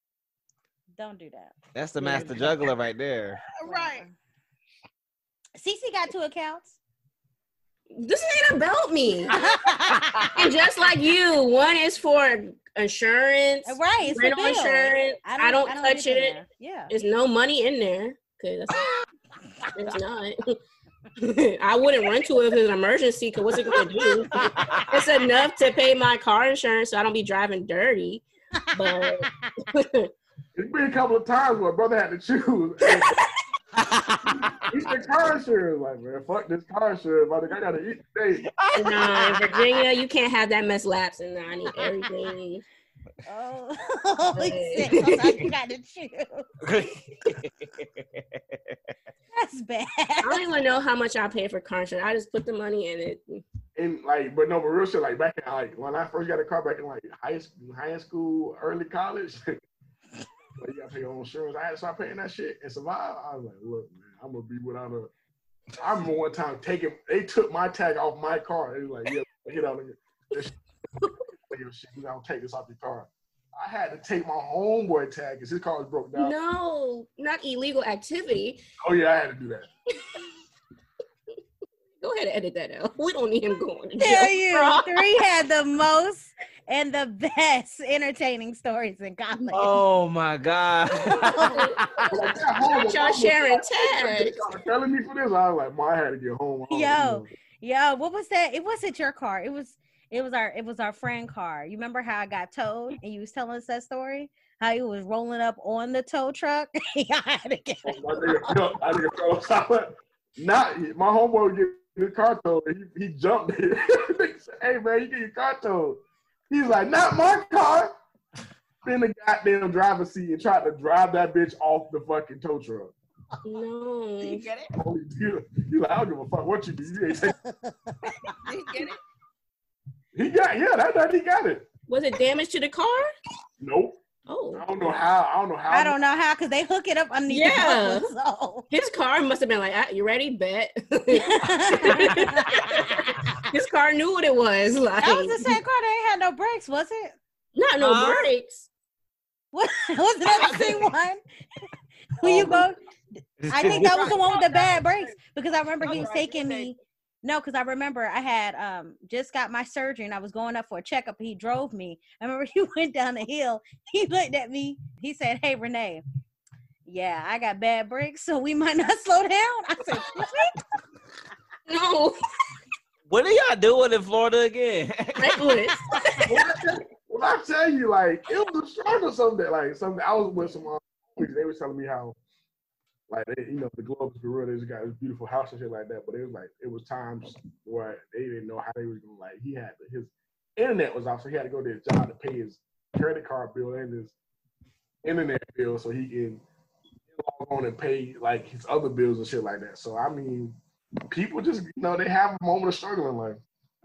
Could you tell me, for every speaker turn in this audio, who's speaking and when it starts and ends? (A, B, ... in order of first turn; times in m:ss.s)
0:01.0-0:02.4 A
0:01.7-0:03.4 B
0:03.5-0:04.0 C
0:03.6-0:04.1 A
0:05.6-0:06.8 A
0:07.9-0:09.4 D
0:09.3-0:10.3 A
0:10.0-0:10.4 B
0:10.3-0:19.0 D
0:13.6-0:16.9 A
0:19.7-0:20.6 D
0:21.2-0:30.1 D
0:24.3-0:25.0 B
0:30.5-0:33.2 E
0:33.8-0:34.7 B
0:34.3-0:38.5 E
0:38.6-0:39.8 B
0:38.7-0:42.6 D
0:43.2-0:46.5 A
0:44.3-0:45.4 D
0:46.6-0:48.8 B
0:49.3-0:50.4 A
0:50.2-0:53.4 D
0:53.8-0:59.6 E
1:00.6-1:05.1 E
1:05.8-1:10.5 E
1:11.5-1:16.3 E
1:16.1-1:18.6 D
1:18.8-1:19.7 E
1:22.0-1:25.0 D
1:24.0-1:29.8 A
1:29.5-1:32.1 B
1:31.1-1:31.6 A
1:31.4-1:31.8 D
1:32.1-1:37.3 E
1:32.6-1:34.4 D
1:36.7-1:48.5 A
1:47.8-1:57.9 E
1:58.8-2:02.9 E
2:03.4-2:04.5 D
2:04.2-2:04.7 C
2:04.7-2:07.3 E
2:07.2-2:08.4 A
2:08.0-2:09.0 C
2:10.1-2:11.6 E
2:11.9-2:13.1 D
2:13.6-2:14.0 E
2:14.3-2:14.6 D
2:14.5-2:16.0 E
2:15.7-2:18.7 A
2:17.3-2:18.1 D
2:18.7-2:25.6 D
2:21.2-2:22.7 A
2:22.2-2:22.7 B
2:25.0-2:27.2 A
2:27.5-2:28.7 D
2:27.8-2:28.3 B
2:29.5-2:31.2 A
2:30.3-2:30.9 B
2:32.2-2:32.8 A
2:32.2-2:32.6 B
2:32.3-2:32.6 D
2:33.4-2:34.2 B
2:33.5-2:46.0 A
2:33.6-2:35.1 C
2:35.8-2:36.7 C
2:46.8-2:50.6 A
2:51.7-2:52.2 D
2:53.1-2:55.6 B
2:55.2-2:56.3 D
2:56.2-3:02.2 E
3:03.1-3:14.1 E
3:15.0-3:16.4 E
3:17.1-3:20.6 E
3:21.1-3:23.4 E